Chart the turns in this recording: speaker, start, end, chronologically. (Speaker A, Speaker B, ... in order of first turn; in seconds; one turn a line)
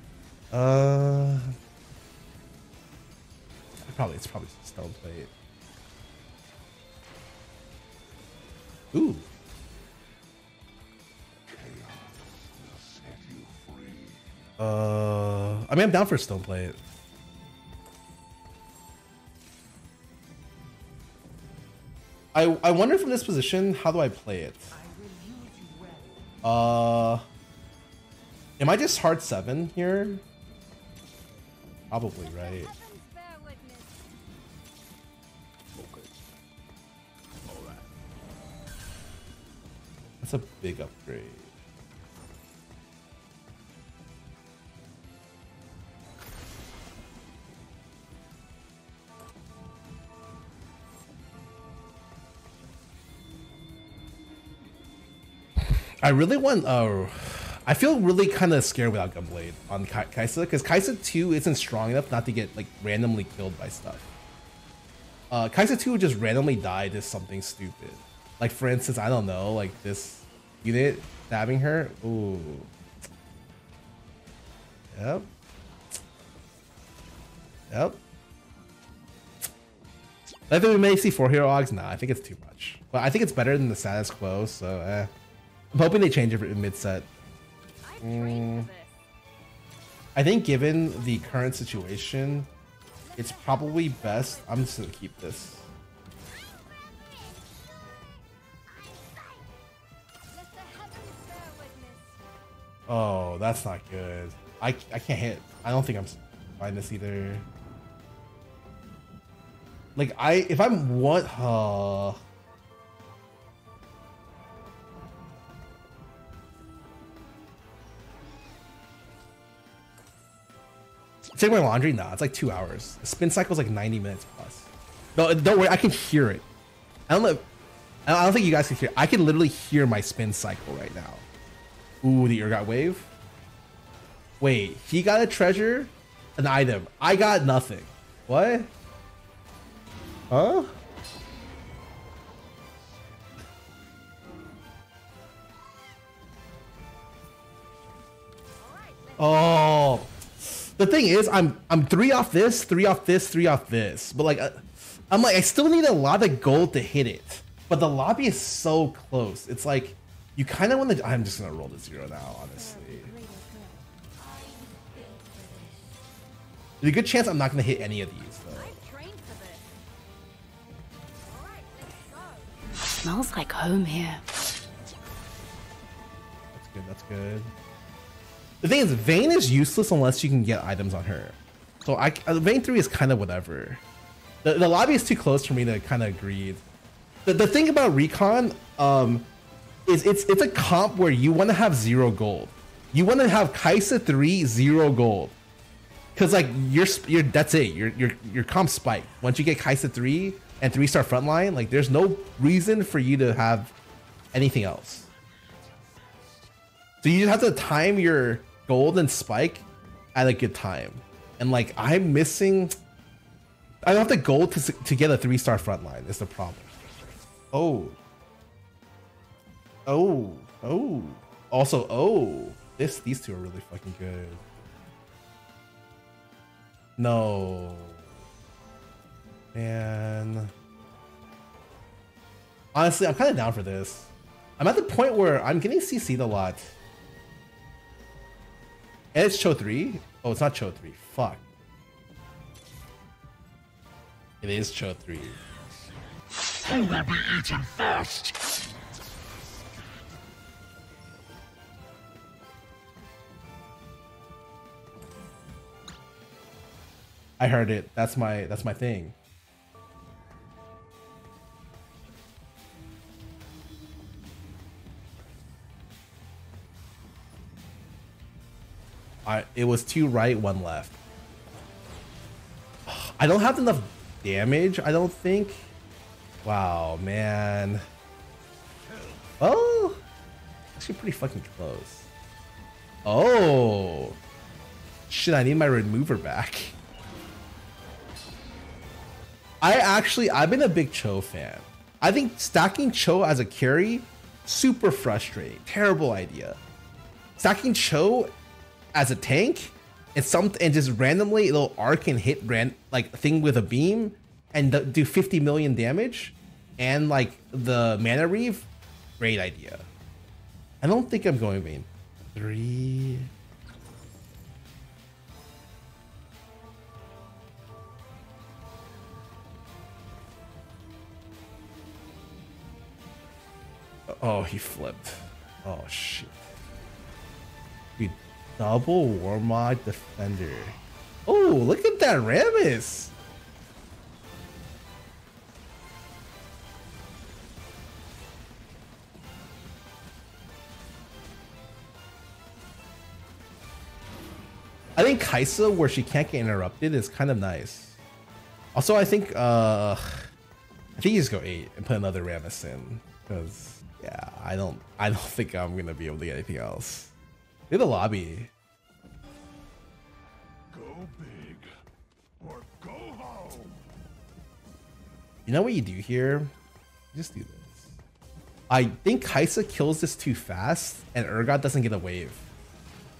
Speaker A: 0.5-1.6
Speaker A: 3.8-5.3
Speaker A: 8.9-9.3
Speaker B: 11.4-14.2
Speaker A: 14.6-16.8
Speaker A: 22.3-24.7
Speaker B: 24.7-26.3
Speaker A: 26.4-27.2
Speaker A: 28.6-30.2
Speaker A: 31.9-32.7
Speaker C: 32.2-34.0
Speaker B: 35.7-36.2
Speaker B: 37.5-37.8
Speaker A: 40.2-41.5
Speaker A: 56.0-64.0
Speaker A: 65.3-72.7
Speaker A: 74.9-75.3
Speaker A: 77.7-78.0
Speaker A: 80.5-85.1
Speaker A: 85.7-87.1
Speaker C: 87.8-89.0
Speaker A: 88.0-88.7
Speaker A: 90.1-92.5
Speaker C: 93.1-94.6
Speaker A: 93.2-95.7
Speaker C: 96.5-97.4
Speaker C: 100.3-102.2
Speaker A: 102.9-107.4
Speaker A: 110.0-112.2
Speaker A: 121.3-126.5
Speaker A: 127.1-127.5
Speaker A: 128.1-131.2
Speaker A: 132.0-133.1
Speaker A: 134.4-138.7
Speaker A: 140.3-140.8
Speaker C: 148.6-149.8
Speaker A: 149.2-163.1
Speaker D: 162.6-163.7
Speaker C: 164.2-165.9
Speaker A: 166.8-168.8
Speaker C: 168.5-169.6
Speaker C: 171.3-172.5
Speaker D: 173.0-174.2
Speaker A: 176.5-177.5
Speaker A: 178.6-183.8
Speaker A: 184.4-186.6
Speaker A: 187.2-189.3
Speaker A: 189.9-195.3
Speaker A: 196.1-203.7
Speaker A: 204.3-205.1
Speaker B: 205.4-206.3
Speaker A: 207.0-212.7
Speaker A: 213.8-216.7
Speaker A: 217.5-217.9
Speaker A: 219.8-224.4
Speaker A: 227.0-228.0
Speaker A: 229.5-230.5
Speaker A: 232.7-236.7
Speaker A: 239.1-241.4
Speaker A: 244.4-245.4
Speaker B: 246.7-248.3
Speaker A: 257.4-259.1
Speaker A: 269.2-270.9
Speaker A: 272.9-275.7
Speaker A: 276.4-277.8
Speaker A: 279.4-280.0
Speaker A: 280.8-282.1
Speaker A: 283.0-284.2
Speaker A: 285.1-286.7
Speaker A: 289.6-296.6
Speaker A: 297.4-298.3
Speaker A: 298.9-309.9
Speaker A: 310.8-313.3
Speaker A: 324.1-326.4
Speaker A: 328.0-333.1
Speaker A: 344.9-347.9
Speaker A: 348.7-350.3
Speaker A: 351.0-357.1
Speaker A: 357.7-358.5
Speaker B: 360.7-361.7
Speaker B: 362.4-363.7
Speaker A: 365.4-366.5
Speaker A: 367.1-367.8
Speaker A: 368.7-372.4